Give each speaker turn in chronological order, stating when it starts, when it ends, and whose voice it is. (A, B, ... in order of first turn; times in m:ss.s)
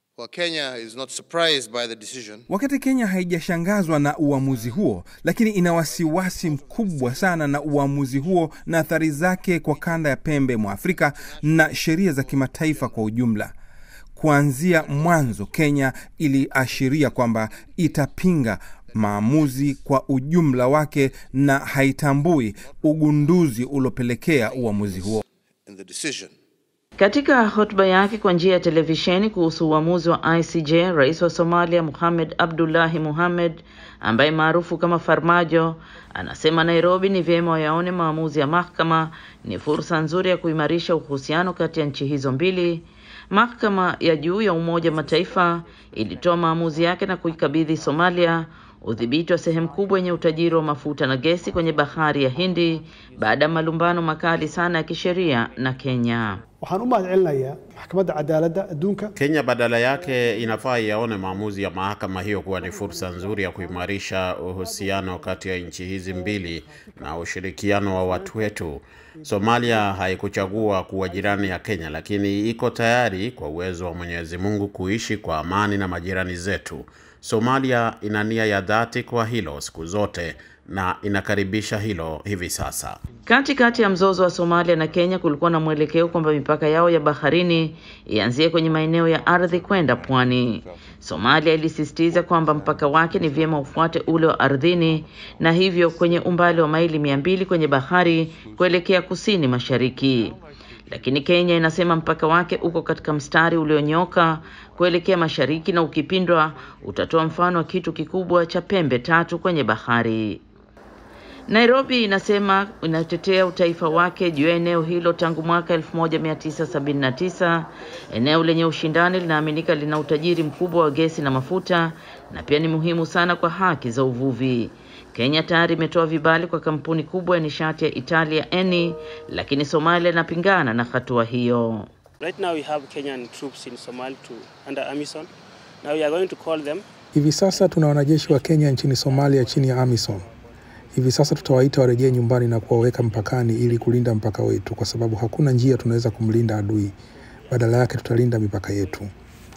0:00.2-0:02.4 A
0:02.5-0:13.5 B
0:14.2-0:25.2 B
0:25.7-0:26.3 A
0:27.0-0:56.4 C
0:56.6-0:59.1 D
0:59.2-1:23.0 E
1:04.7-1:05.2 D
1:06.4-1:07.0 D
1:08.1-1:08.5 D
1:09.2-1:10.0 D
1:11.1-1:11.5 D
1:23.2-1:40.4 C
1:40.9-1:50.4 C
1:51.5-2:11.9 C
2:12.2-2:15.3 F
2:15.8-2:16.8 F
2:17.1-2:20.2 G
2:20.9-2:26.9 G
2:27.5-2:29.1 G